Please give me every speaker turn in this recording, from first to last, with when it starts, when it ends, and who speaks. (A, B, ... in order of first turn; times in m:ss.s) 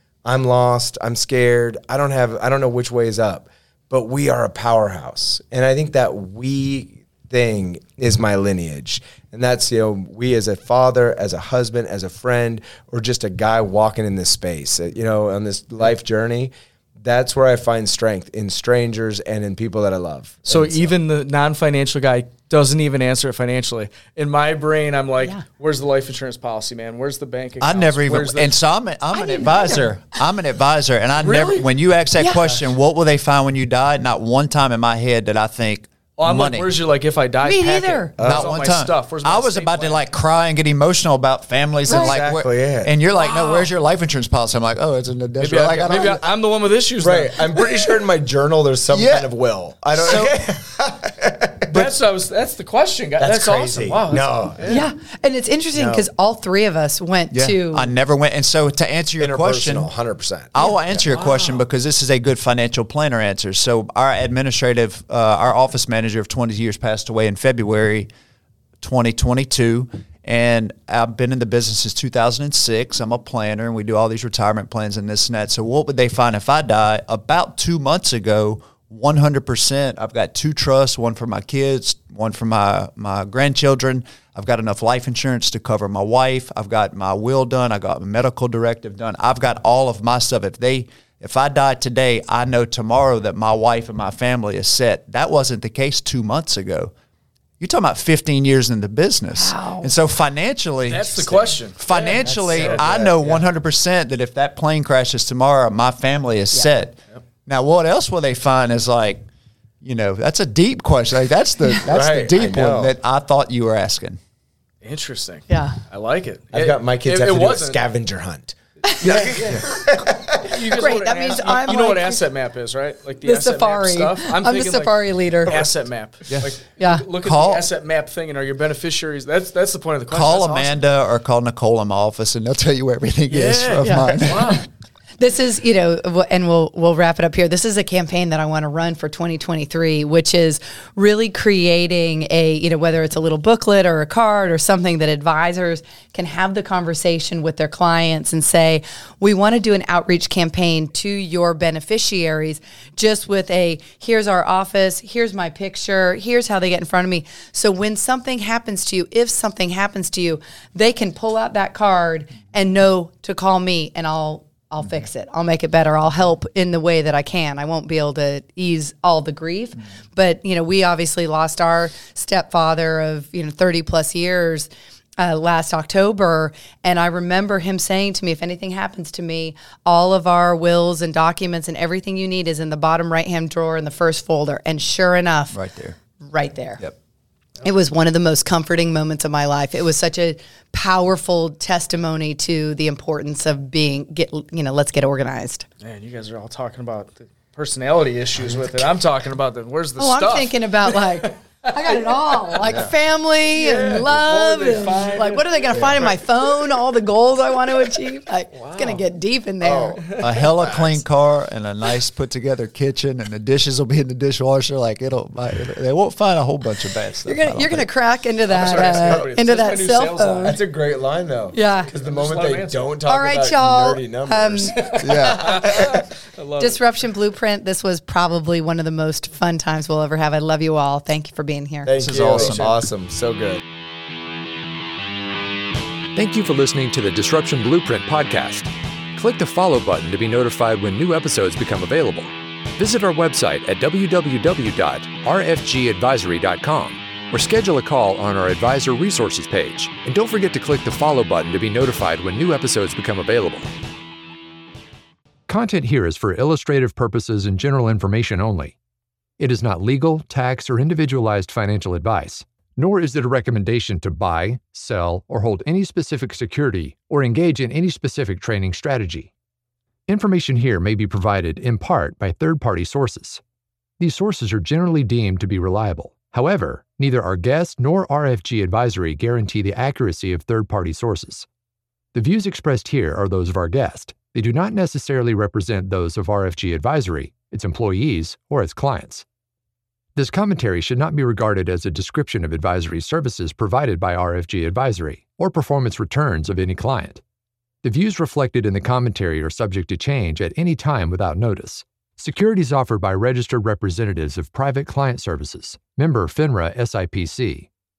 0:00.2-0:20.9 A
0:20.5-0:28.6 B
0:27.6-0:36.7 C
0:29.1-0:29.9 D
0:31.2-0:31.7 B
0:32.2-0:32.4 D
0:36.2-0:40.0 B
0:37.4-0:38.1 D
0:38.2-0:38.5 A
0:38.2-0:46.2 C
0:41.9-0:42.9 A
0:43.3-0:43.6 D
0:45.4-0:47.7 B
0:47.0-0:51.8 A
0:48.9-0:49.3 C
0:50.0-0:50.4 C
0:51.7-0:54.8 B
0:53.2-0:54.8 A
0:54.7-0:57.9 D
0:55.7-0:56.1 A
0:57.3-0:59.9 C
0:59.2-1:01.0 A
1:00.5-1:08.1 C
1:08.8-1:36.9 C
1:37.6-1:49.2 C
1:39.4-1:39.9 D
1:40.9-1:43.3 B
1:41.9-1:43.4 A
1:49.8-1:54.2 C
1:51.8-1:52.9 A
1:54.8-1:57.8 B
1:55.5-1:55.8 D
1:56.5-2:00.6 A
1:59.1-1:59.6 B
1:59.1-1:59.6 C
2:00.4-2:10.8 B
2:00.5-2:02.2 D
2:03.2-2:05.6 D
2:06.8-2:07.0 D
2:07.2-2:07.6 C
2:10.1-2:14.6 C
2:13.3-2:14.6 B
2:13.8-2:14.4 D
2:15.2-3:05.6 D
3:05.5-3:06.0 C
3:06.2-3:06.8 D
3:07.6-3:15.6 D
3:15.8-3:22.7 B
3:20.0-3:30.0 D
3:23.6-3:26.2 B
3:25.7-3:26.0 C
3:28.5-3:29.0 B
3:29.6-3:30.8 A
3:30.2-3:37.8 C
3:37.2-3:40.6 D
3:38.5-3:40.6 B
3:38.7-3:39.3 A
3:40.4-3:46.0 A
3:41.5-3:41.9 D
3:41.9-3:42.9 B
3:43.0-3:46.0 D
3:44.8-3:46.8 B
3:45.0-3:45.5 C
3:46.6-3:51.9 D
3:51.8-3:53.6 A
3:52.0-3:52.8 C
3:52.3-3:52.7 B
3:56.1-4:13.7 E
4:15.5-4:18.8 E
4:19.4-4:29.3 E
4:30.1-4:33.4 E
4:34.0-4:41.4 E
4:42.1-4:49.2 E
4:50.2-4:57.2 E
4:57.8-5:07.7 E